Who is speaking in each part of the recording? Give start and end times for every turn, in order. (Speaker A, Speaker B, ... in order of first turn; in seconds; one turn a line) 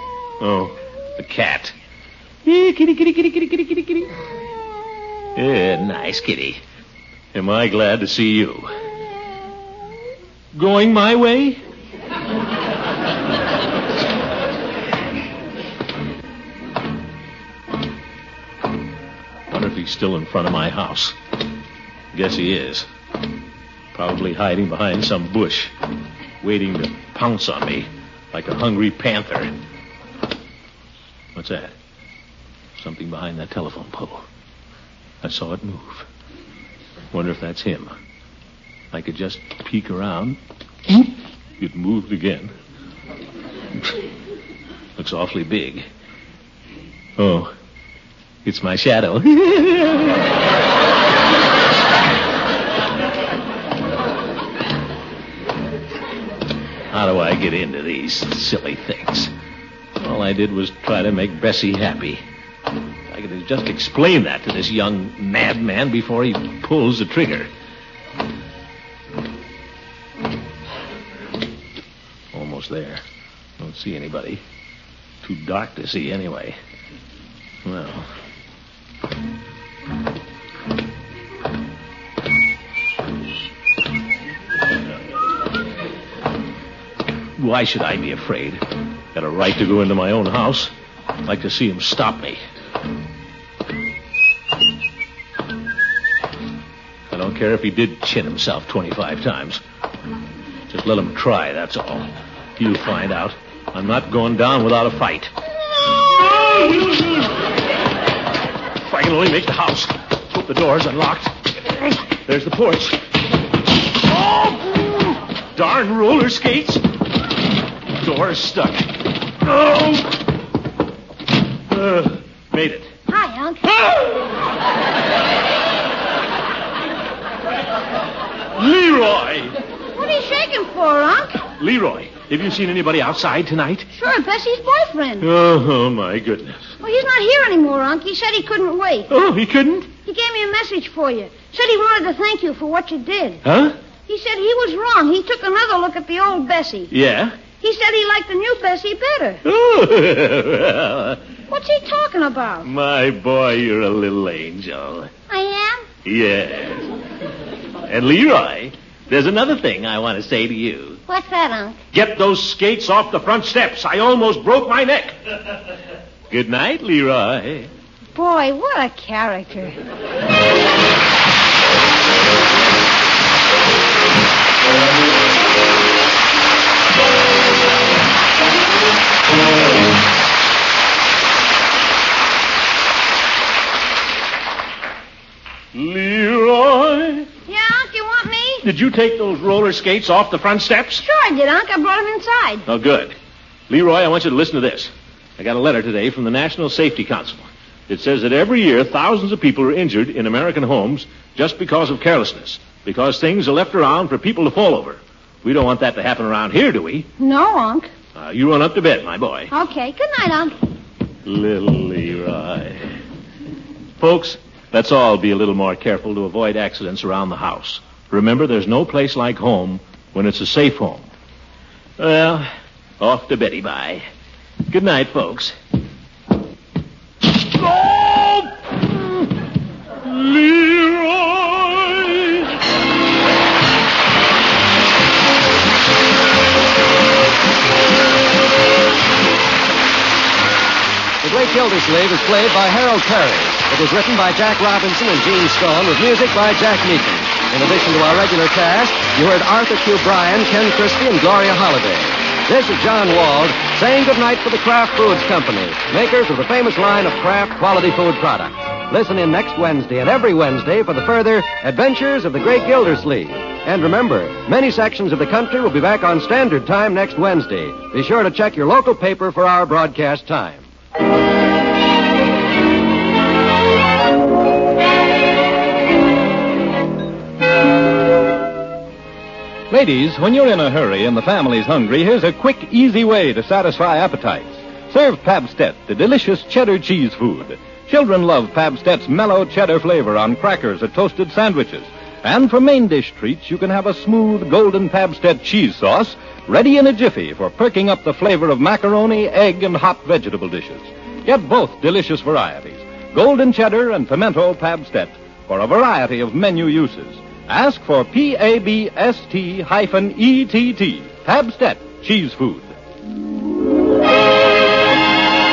Speaker A: 0.4-1.7
Speaker A: 2.4-4.1
Speaker A: 5.3-6.6
Speaker A: 7.3-8.7
Speaker A: 10.5-11.6
Speaker A: 19.5-21.1
Speaker A: 22.1-22.9
Speaker A: 23.9-25.7
Speaker A: 26.4-29.5
Speaker A: 31.3-31.7
Speaker A: 32.8-34.2
Speaker A: 35.2-36.1
Speaker A: 37.1-37.9
Speaker A: 38.9-42.5
Speaker A: 45.0-45.9
Speaker A: 47.2-47.5
Speaker A: 48.4-50.2
Speaker A: 56.9-59.3
Speaker A: 60.0-62.2
Speaker A: 63.1-67.5
Speaker A: 72.3-73.0
Speaker A: 73.6-74.4
Speaker A: 75.2-76.6
Speaker A: 77.6-78.0
Speaker A: 87.4-88.6
Speaker A: 89.1-90.7
Speaker A: 91.2-92.4
Speaker A: 97.1-99.6
Speaker A: 100.7-105.3
Speaker A: 105.9-107.3
Speaker A: 108.8-113.0
Speaker A: 114.0-116.8
Speaker A: 118.0-120.2
Speaker A: 121.7-122.9
Speaker B: 123.1-123.9
Speaker A: 128.5-129.6
Speaker B: 129.9-131.4
Speaker A: 131.6-133.9
Speaker B: 133.9-135.3
Speaker A: 135.2-136.7
Speaker B: 136.8-139.1
Speaker A: 139.1-139.9
Speaker B: 140.0-143.4
Speaker A: 143.4-143.7
Speaker B: 144.1-146.9
Speaker A: 146.9-147.3
Speaker B: 147.5-149.4
Speaker A: 149.4-151.2
Speaker B: 151.5-152.7
Speaker A: 152.6-155.1
Speaker B: 155.3-155.9
Speaker A: 156.0-156.9
Speaker A: 157.9-161.0
Speaker B: 161.1-161.8
Speaker A: 161.9-165.3
Speaker A: 166.3-167.7
Speaker B: 168.1-169.8
Speaker A: 185.7-187.3
Speaker B: 187.5-188.6
Speaker A: 188.6-191.0
Speaker B: 191.0-192.6
Speaker A: 192.7-193.1
Speaker A: 193.7-207.1
Speaker B: 207.2-207.9
Speaker A: 208.1-209.5
Speaker B: 209.5-210.5
Speaker A: 211.2-212.8
Speaker A: 214.0-221.1
Speaker A: 222.0-222.5
Speaker A: 223.0-224.0
Speaker A: 224.7-225.5
Speaker A: 227.4-229.2
Speaker A: 230.0-232.5
Speaker C: 241.2-270.6
Speaker D: 279.7-312.7